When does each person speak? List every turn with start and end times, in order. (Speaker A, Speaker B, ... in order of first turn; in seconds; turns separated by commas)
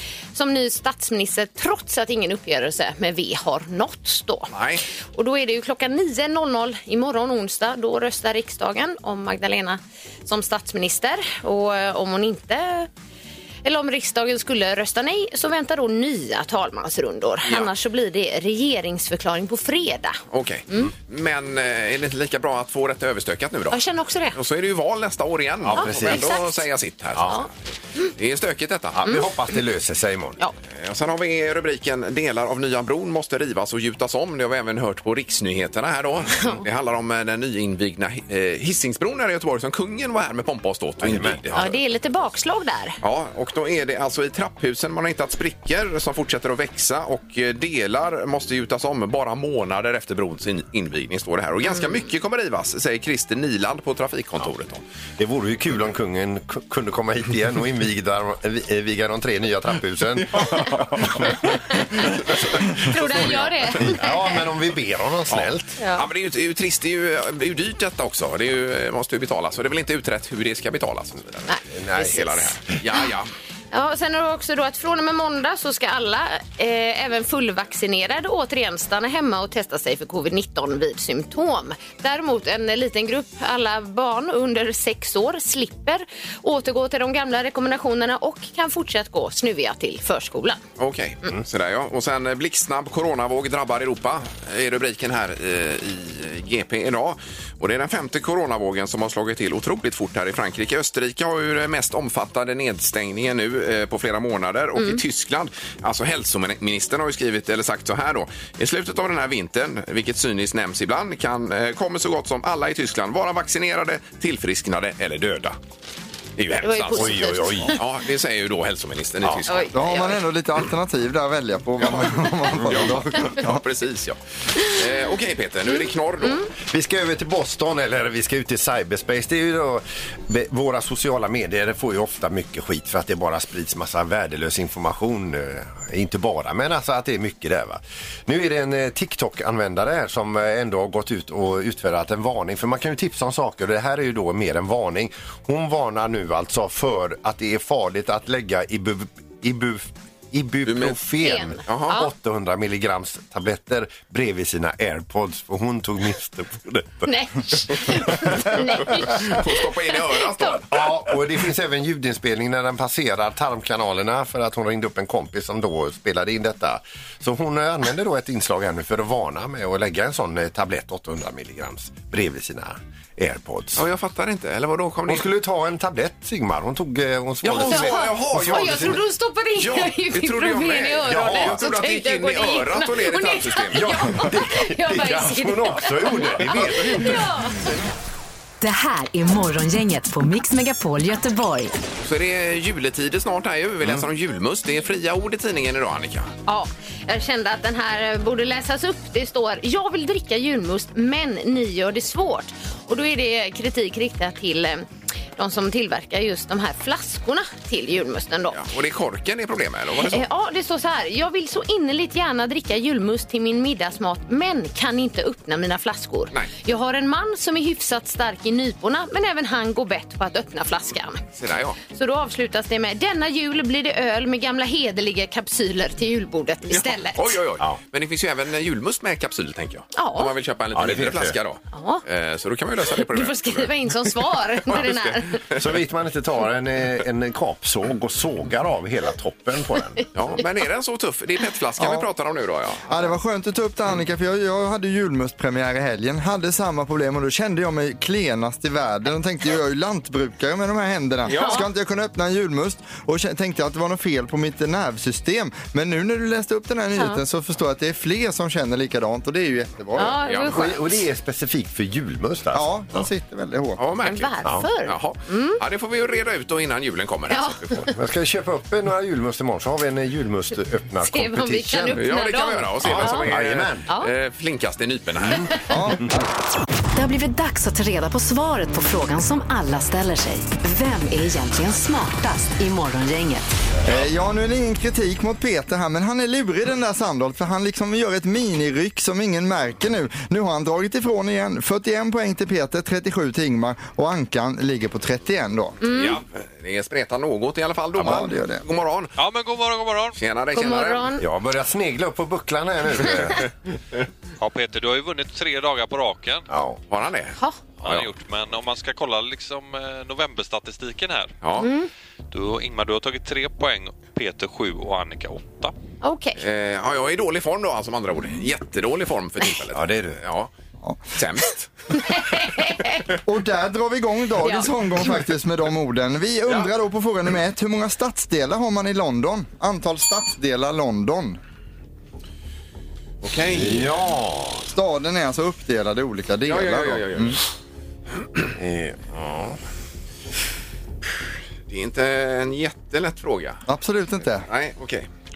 Speaker A: 0.3-4.5, Speaker B: 4.5-4.8, Speaker A: 5.2-12.9, Speaker A: 13.6-20.2, Speaker B: 17.4-17.7, Speaker B: 20.3-23.8, Speaker A: 23.7-24.4, Speaker B: 24.3-27.5, Speaker C: 25.6-26.4, Speaker A: 25.8-26.6, Speaker B: 28.2-29.0, Speaker C: 28.9-30.4, Speaker B: 30.7-41.7, Speaker C: 41.0-41.7, Speaker A: 41.5-43.0, Speaker B: 43.0-54.8, Speaker A: 51.7-51.9, Speaker C: 55.2-61.5, Speaker B: 60.4-61.4, Speaker B: 62.0-63.9, Speaker A: 62.8-64.2, Speaker C: 63.8-65.7, Speaker B: 65.3-73.3, Speaker A: 65.8-66.1, Speaker A: 71.5-72.3, Speaker C: 71.7-72.6, Speaker A: 73.7-90.6, Speaker B: 90.8-115.6, Speaker B: 116.4-119.7, Speaker A: 116.6-117.8, Speaker C: 117.0-117.8, Speaker A: 119.5-120.2, Speaker D: 119.7-123.6, Speaker B: 121.8-126.5, Speaker C: 126.7-157.1, Speaker B: 150.7-151.0, Speaker A: 151.2-152.1, Speaker B: 151.7-151.9, Speaker A: 157.1-160.6, Speaker C: 157.6-158.8, Speaker B: 158.8-160.8, Speaker C: 160.7-173.8, Speaker B: 173.8-175.3, Speaker C: 175.1-179.0, Speaker B: 177.4-179.0, Speaker A: 177.6-187.6, Speaker B: 179.6-183.9, Speaker C: 181.1-181.6, Speaker C: 183.7-187.3, Speaker E: 188.6-191.7, Speaker B: 192.0-196.3, Speaker A: 196.5-208.6, Speaker B: 208.5-210.3, Speaker A: 210.1-221.2, Speaker B: 221.4-221.8, Speaker A: 221.9-227.4, Speaker B: 226.7-233.9, Speaker A: 229.9-230.3, Speaker C: 230.7-231.4, Speaker A: 231.7-232.0, Speaker A: 232.9-235.4, Speaker B: 234.7-235.6, Speaker C: 235.6-240.1, Speaker B: 240.2-243.1, Speaker D: 241.8-242.1, Speaker D: 242.9-260.2, Speaker B: 251.3-251.6, Speaker A: 251.3-251.6, Speaker A: 257.0-257.2, Speaker A: 260.0-261.0, Speaker B: 260.2-260.6, Speaker C: 260.4-263.0, Speaker D: 262.5-263.8, Speaker B: 263.8-267.8, Speaker A: 264.0-265.6, Speaker A: 267.3-267.8, Speaker C: 267.8-272.1, Speaker A: 271.1-273.3, Speaker B: 272.0-275.6, Speaker C: 272.8-273.9, Speaker C: 275.2-275.5, Speaker D: 275.7-276.1, Speaker E: 277.0-283.5, Speaker D: 283.9-295.8, Speaker A: 295.8-296.2, Speaker B: 295.8-299.1, Speaker D: 298.0-298.6, Speaker F: 299.2-300.2, Speaker B: 300.2-301.1, Speaker A: 300.5-301.2, Speaker C: 301.2-303.5, Speaker F: 304.4-306.4, Speaker C: 306.5-306.8, Speaker B: 306.9-308.1, Speaker F: 307.8-311.4, Speaker B: 311.4-311.7, Speaker A: 311.6-311.9, Speaker F: 312.3-315.7, Speaker A: 316.0-316.4, Speaker B: 316.4-320.5, Speaker C: 319.7-320.2, Speaker B: 321.1-321.7, Speaker A: 321.9-323.0, Speaker D: 323.3-331.4, Speaker A: 324.4-324.7, Speaker B: 333.2-333.9, Speaker C: 333.5-334.7, Speaker D: 334.7-337.4, Speaker B: 336.5-337.4, Speaker C: 338.5-339.6, Speaker B: 341.7-343.6, Speaker D: 343.7-344.5, Speaker B: 344.5-345.1